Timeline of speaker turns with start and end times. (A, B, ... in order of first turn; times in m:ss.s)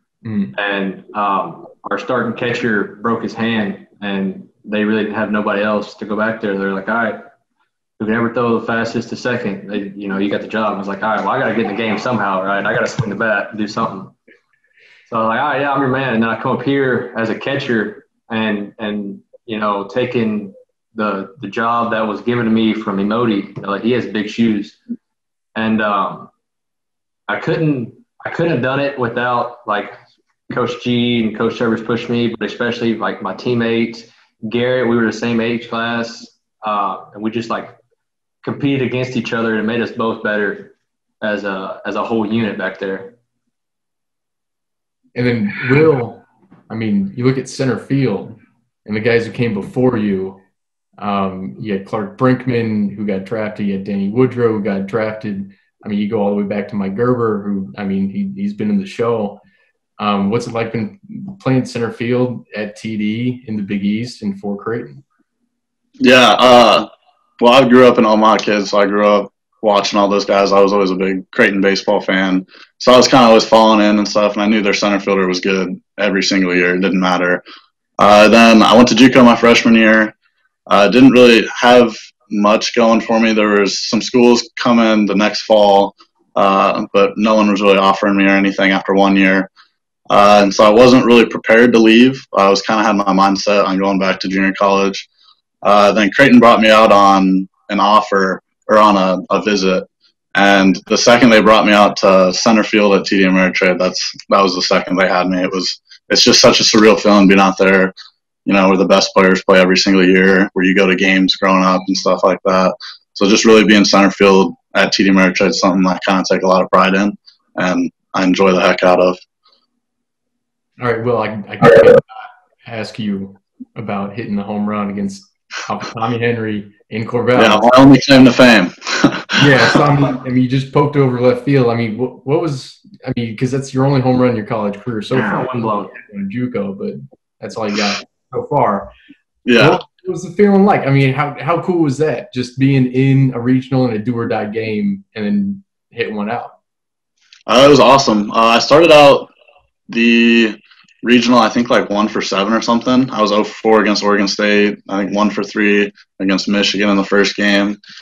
0:00.2-0:00.5 A
0:00.5-0:07.2 B
0:08.0-0:14.1 B
0:15.1-0:24.8 B
0:25.6-0:26.3 B
0:27.3-0:29.9 B
0:30.5-0:37.8 B
0:38.4-0:43.1 B
0:45.1-0:50.4 A
0:51.0-0:59.4 A
1:00.0-1:05.0 A
1:06.0-1:06.9 C
1:07.4-1:17.4 C
1:18.0-1:20.1 C
1:20.7-1:29.5 C
1:30.1-1:35.1 C
1:35.6-1:47.9 C
1:48.4-1:59.2 C
2:00.8-2:02.1 A
2:02.6-2:07.7 A
2:07.4-2:09.8 C
2:09.4-2:18.9 A
2:15.1-2:16.0 B
2:19.5-2:19.8 C
2:19.5-2:26.5 A
2:27.5-2:29.3 C
2:29.9-2:37.8 C